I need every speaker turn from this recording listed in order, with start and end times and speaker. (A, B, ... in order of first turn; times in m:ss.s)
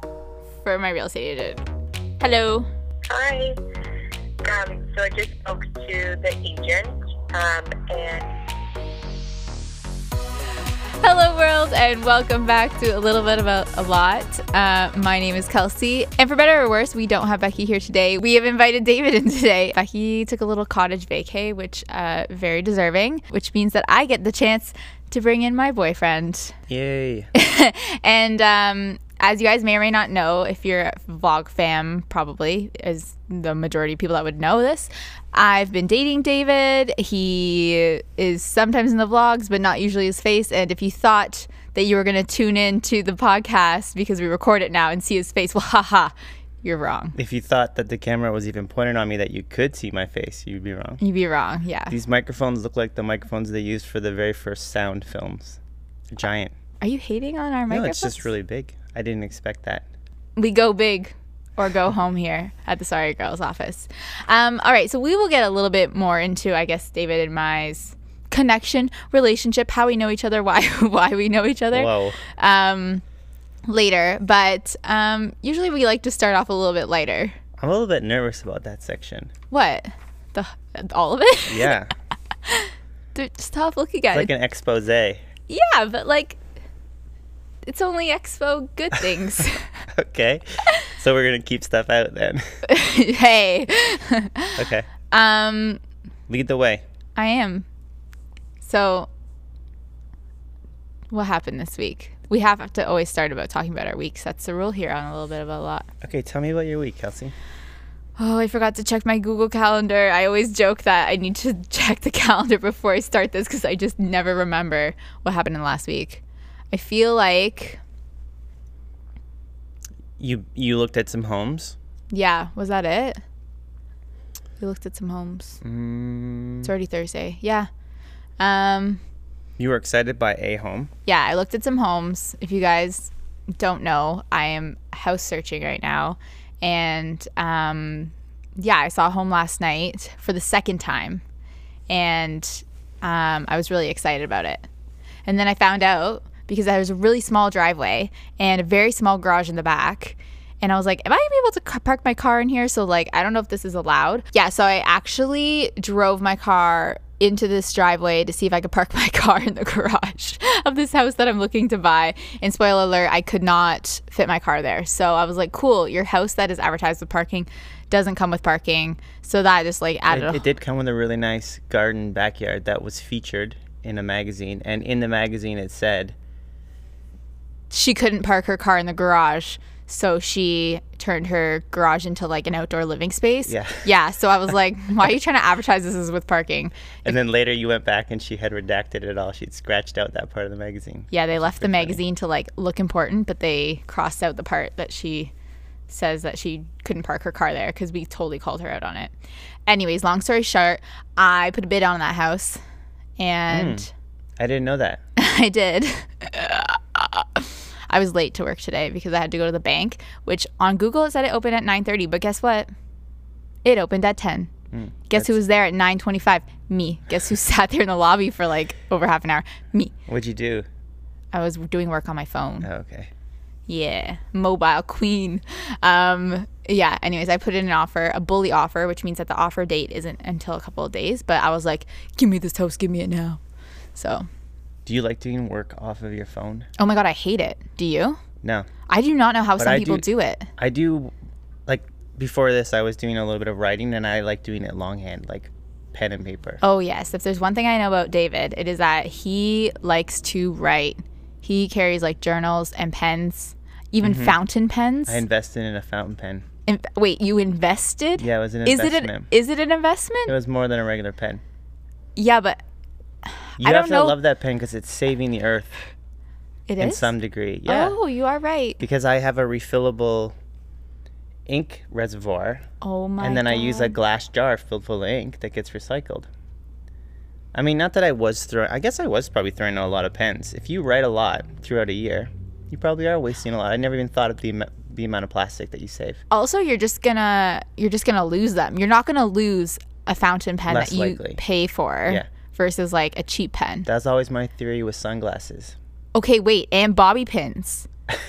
0:00.6-0:01.6 A
0:02.2-0:02.7 A
0:03.1-0:03.6 B
0:04.4-0:08.2 B
0:11.0-0:26.6 A
0:26.7-0:27.3 C
0:27.3-0:47.2 A
0:47.2-0:51.0 C
0:51.0-0:51.9 A
0:51.9-0:55.6 C
0:56.1-0:56.5 C
0:56.8-0:58.3 A
0:57.7-0:59.8 C
1:00.4-1:13.0 A
1:11.7-1:12.2 C
1:13.7-1:17.4 A
1:17.6-1:19.3 C
1:19.5-1:21.7 A
1:21.5-1:21.9 C
1:22.4-1:24.3 A
1:24.1-1:25.2 C
1:25.5-1:26.4 A
1:27.6-1:29.8 A
1:29.9-1:32.6 C
1:32.6-1:35.8 A
1:34.6-1:34.9 C
1:36.3-1:36.8 C
1:37.2-1:37.6 A
1:38.6-1:39.1 A
1:41.1-1:45.9 A
1:46.0-1:47.3 C
1:48.2-1:57.8 A
2:00.2-2:01.8 C
2:02.1-2:03.2 A
2:04.6-2:05.6 A
2:05.6-2:06.7 C
2:06.6-2:07.7 A
2:08.4-2:09.0 A
2:09.6-2:10.9 C
2:11.0-2:21.2 A
2:21.9-2:24.6 A
2:25.2-2:50.4 A
2:50.1-2:56.1 C
2:57.7-3:07.1 A
3:03.4-3:03.9 C
3:07.0-3:12.0 C
3:11.1-3:15.3 A
3:15.9-3:19.1 A
3:19.7-3:22.6 A
3:23.2-3:23.9 A
3:23.5-3:23.9 C
3:24.4-3:25.0 C
3:25.2-3:32.7 A
3:33.6-3:34.5 A
3:34.7-3:35.4 C
3:35.1-3:39.9 A
3:40.1-3:40.6 C
3:41.3-3:42.7 A
3:42.6-3:43.1 C
3:43.7-3:53.4 A
3:53.9-3:54.3 A
3:54.8-3:56.7 C
3:56.8-3:58.2 A
3:58.4-3:58.7 C
3:58.9-4:00.5 A
3:59.6-4:01.1 C
4:01.7-4:06.6 C
4:06.6-4:15.2 A
4:14.0-4:14.4 C
4:15.1-4:16.4 C
4:16.7-4:20.3 A
4:18.2-4:19.3 C
4:20.3-4:21.4 C
4:22.2-4:22.6 A
4:23.3-4:24.2 A
4:23.6-4:25.7 C
4:26.7-4:27.1 A
4:26.8-4:28.0 C
4:27.6-4:28.8 A
4:28.8-4:30.3 C
4:31.5-4:32.6 C
4:32.8-4:34.0 A
4:33.2-4:36.3 C
4:37.5-4:46.2 C
4:46.3-4:53.9 A
4:50.7-4:51.4 C
4:53.8-4:55.8 C
4:56.1-4:57.9 A